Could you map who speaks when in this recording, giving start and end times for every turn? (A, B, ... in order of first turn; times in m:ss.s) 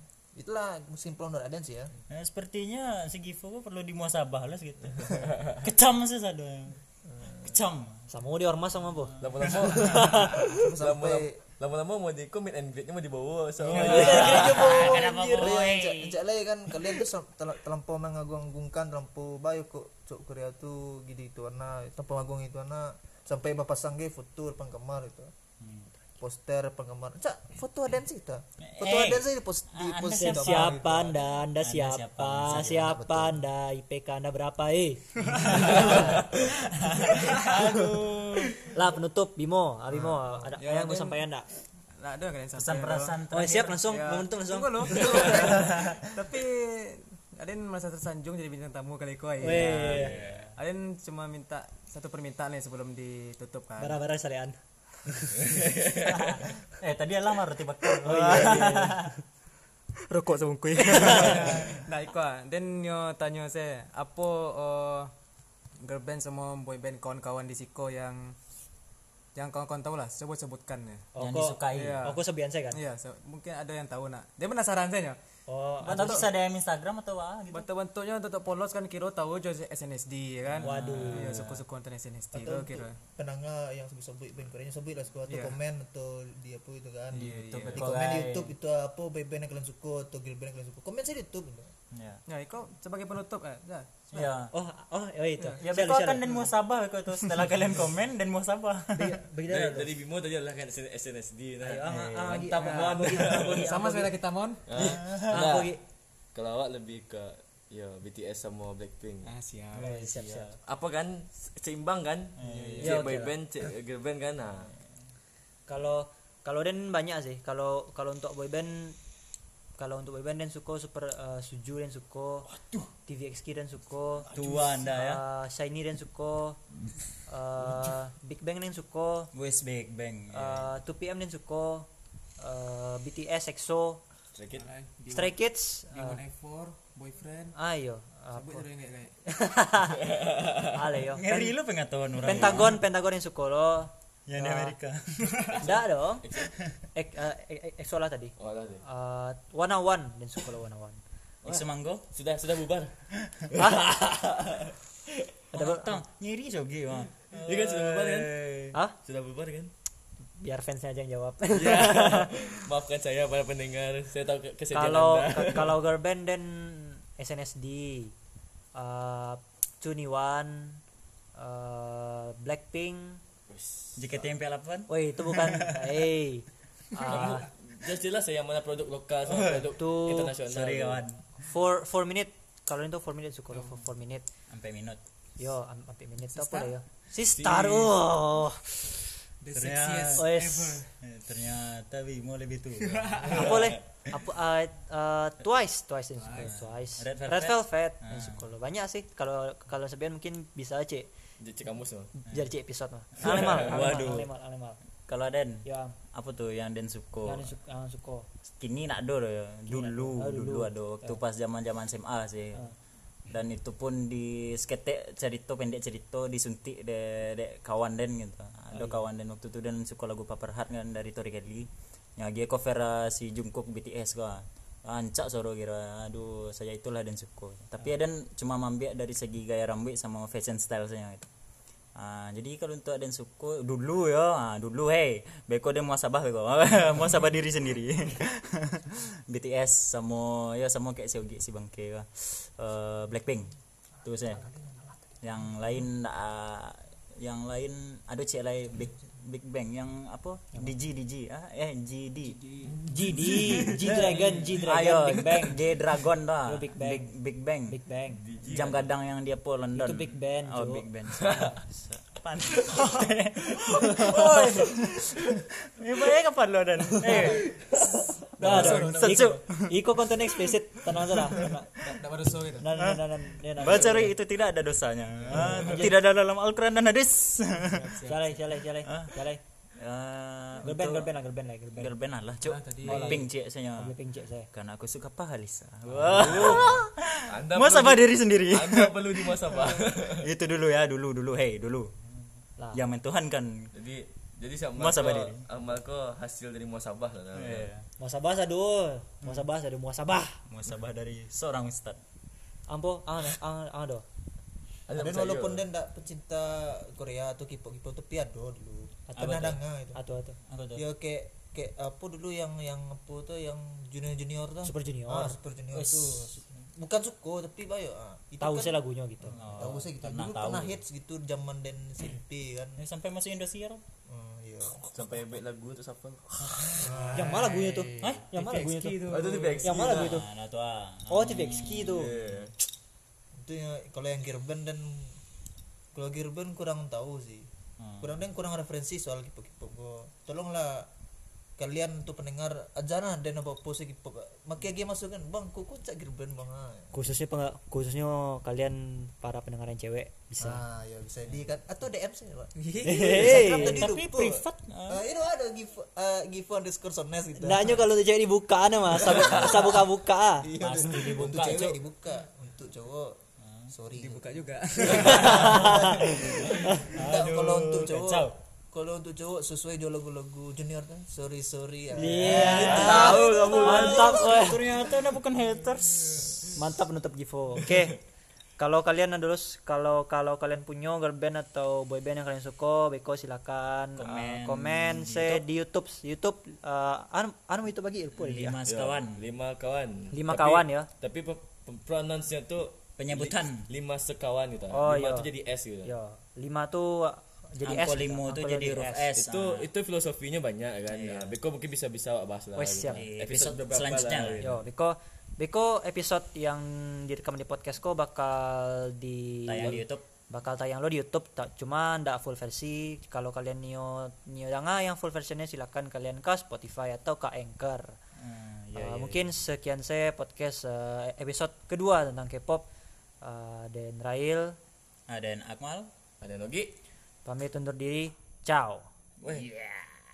0:00.4-0:01.9 A
0:02.1-0:06.8 B
0:07.1-0:07.6 A
0:07.4-0:08.0 B
0:08.1-0:10.4 C
0:09.2-0:10.2 B
0:09.2-0:14.8 D
0:10.7-0:11.4 A
0:13.7-0:25.3 A
0:13.7-0:16.2 B
0:13.9-0:14.9 C
0:25.6-0:25.9 B
0:26.2-0:31.2 A
0:28.6-0:33.1 B
0:30.2-0:36.2 C
0:32.7-0:33.4 A
0:35.3-0:36.0 E
0:35.4-0:38.3 B
0:37.2-0:38.6 E
0:38.7-0:41.5 C
0:39.9-0:40.2 A
0:40.6-0:41.2 E
0:42.0-0:43.2 E
0:42.6-0:43.8 B
0:43.3-0:45.5 C
0:43.8-0:54.0 E
0:45.0-0:46.0 B
0:49.4-0:50.1 C
0:49.5-0:50.6 B
0:49.9-0:50.5 D
0:53.8-0:55.4 C
0:55.5-0:56.1 D
0:56.1-0:59.1 B
0:58.0-0:59.0 C
1:00.1-1:01.6 C
1:00.2-1:05.1 E
1:01.0-1:01.8 B
1:05.8-1:08.4 E
1:09.4-1:11.1 E
1:11.2-1:12.8 C
1:11.2-1:12.0 B
1:11.7-1:12.2 E
1:12.7-1:15.2 E
1:15.5-1:16.3 C
1:15.8-1:17.7 B
1:15.8-1:16.3 E
1:17.5-1:23.0 E
1:20.5-1:21.6 B
1:20.6-1:21.4 C
1:22.3-1:31.7 A
1:25.3-1:25.6 E
1:27.1-1:28.5 B
1:27.1-1:27.9 E
1:31.9-1:32.2 B
1:32.3-1:34.1 E
1:34.1-1:34.5 B
1:34.1-1:36.2 C
1:35.6-1:39.2 B
1:39.0-1:39.9 C
1:39.5-1:43.7 D
1:41.6-1:44.1 C
1:41.8-1:42.6 B
1:42.6-1:45.0 E
1:44.7-1:45.8 D
1:45.0-1:45.4 B
1:45.3-1:45.8 C
1:46.3-1:49.3 D
1:49.2-1:50.2 E
1:49.7-1:50.6 B
1:49.8-1:50.5 C
1:50.6-1:54.7 D
1:52.4-1:53.1 B
1:52.8-1:53.3 C
1:55.7-1:59.0 C
1:59.8-2:02.5 C
2:02.6-2:02.9 D
2:03.0-2:04.3 C
2:04.3-2:04.8 D
2:04.3-2:05.2 B
2:04.9-2:06.6 C
2:07.2-2:09.3 C
2:09.3-2:10.7 B
2:10.3-2:14.0 C
2:14.4-2:14.7 D
2:14.5-2:15.4 E
2:15.1-2:16.2 C
2:15.9-2:17.6 E
2:17.6-2:18.7 C
2:18.3-2:19.4 E
2:19.3-2:20.1 C
2:20.2-2:20.6 D
2:20.7-2:21.6 C
2:21.1-2:22.8 B
2:22.2-2:24.8 C
2:22.2-2:22.7 D
2:24.3-2:25.4 B
2:25.6-2:26.5 D
2:25.6-2:26.4 C
2:26.9-2:31.0 C
2:28.4-2:28.8 D
2:31.4-2:32.1 B
2:31.5-2:33.0 D
2:33.5-2:34.7 D
2:35.5-2:36.0 C
2:35.5-2:38.8 B
2:37.4-2:39.7 D
2:40.4-2:42.5 C
2:41.6-2:45.8 D
2:44.7-2:48.1 C
2:48.8-2:50.8 C
2:51.4-2:53.2 C
2:53.5-2:54.3 D
2:54.0-2:56.0 B
2:54.9-2:57.5 C
2:57.0-3:01.0 D
2:57.1-2:57.3 E
2:59.4-2:59.6 B
2:59.8-3:00.3 C
3:00.4-3:01.5 B
3:01.4-3:04.3 C
3:03.5-3:03.8 E
3:04.5-3:05.0 B
3:05.4-3:08.9 C
3:06.3-3:06.8 E
3:07.3-3:07.9 D
3:09.4-3:10.9 E
3:09.5-3:10.4 B
3:10.2-3:10.8 C
3:11.0-3:13.7 B
3:12.8-3:13.6 E
3:13.3-3:21.1 C
3:16.2-3:16.6 E
3:17.0-3:18.4 B
3:21.4-3:22.1 D
3:22.2-3:24.8 C
3:22.3-3:22.5 B
3:23.2-3:24.3 B
3:23.2-3:24.1 D
3:25.0-3:27.5 B
3:25.6-3:25.9 C
3:27.2-3:28.3 C
3:28.5-3:32.7 B
3:29.7-3:31.2 C
3:33.3-3:51.3 B
3:38.7-3:39.0 C
3:51.9-4:04.5 B
4:05.2-4:17.8 B
4:12.7-4:15.6 C
4:16.5-4:17.1 C
4:17.6-4:18.2 C
4:18.1-4:18.9 D
4:18.4-4:31.5 B
4:19.7-4:21.6 C
4:23.9-4:24.4 C
4:24.0-4:24.7 D
4:26.9-4:31.8 C
4:28.4-4:29.4 E
4:31.8-4:32.7 E
4:32.6-4:34.2 C
4:32.8-4:38.0 B
4:35.3-4:35.8 E
4:35.3-4:35.9 C
4:37.6-4:38.2 E
4:38.1-4:39.4 C
4:38.8-4:39.2 B
4:39.8-4:41.2 B
4:40.6-4:41.9 C
4:41.7-4:44.0 B
4:42.4-4:43.2 E
4:42.9-4:44.5 C
4:44.5-4:52.1 B
4:46.1-4:50.2 D
4:52.7-4:53.7 B
4:53.7-4:57.7 D
4:54.8-4:55.5 B
4:57.4-4:57.9 B
4:58.0-5:00.4 C
5:00.5-5:02.0 B
5:02.7-5:04.0 C
5:04.9-5:05.6 D
5:04.9-5:10.0 A
5:09.1-5:10.4 C
5:09.3-5:09.6 B
5:10.5-5:10.8 B
5:10.8-5:22.8 A
5:14.6-5:15.4 C
5:15.8-5:16.4 B
5:18.4-5:19.4 C
5:19.3-5:20.8 B
5:22.8-5:23.8 B
5:24.1-5:24.9 A
5:24.9-5:27.0 D
5:26.7-5:29.8 E
5:26.8-5:27.5 A
5:27.1-5:30.3 C
5:28.0-5:28.3 B
5:29.0-5:30.2 D
5:29.8-5:32.3 B
5:31.1-5:32.2 C
5:31.9-5:32.5 D
5:33.4-5:35.2 A
5:35.9-5:37.5 A
5:37.8-5:38.2 B
5:38.0-5:40.9 A
5:41.6-5:46.9 A
5:46.9-5:50.6 C
5:50.4-5:57.8 A
5:52.6-5:53.3 E
5:52.8-5:53.9 C
5:53.3-5:55.0 B
5:57.4-6:00.5 C
5:59.1-5:59.5 A
6:00.4-6:12.9 A
6:00.6-6:01.8 B
6:00.8-6:01.7 D
6:03.4-6:03.7 B
6:03.9-6:06.0 E
6:04.9-6:06.0 C
6:05.4-6:08.4 B
6:12.0-6:14.6 C
6:12.1-6:16.6 B
6:12.4-6:14.4 D
6:16.5-6:18.0 C
6:18.6-6:28.6 C
6:24.0-6:25.4 B
6:28.2-6:29.2 B
6:28.7-6:35.9 D
6:30.1-6:30.9 C
6:33.0-6:33.7 B
6:34.7-6:35.3 C
6:35.8-6:39.1 C
6:37.6-6:39.7 B
6:39.2-6:44.6 D
6:40.9-6:41.3 B
6:42.6-6:43.0 C
6:42.9-6:44.6 B
6:44.4-6:58.0 C
6:49.5-6:50.0 B
6:58.2-6:59.3 B
6:58.8-7:02.7 C
7:03.2-7:04.6 C
7:05.1-7:05.9 B
7:06.2-7:06.7 D
7:07.2-7:08.9 C
7:09.2-7:09.5 D
7:09.3-7:09.9 B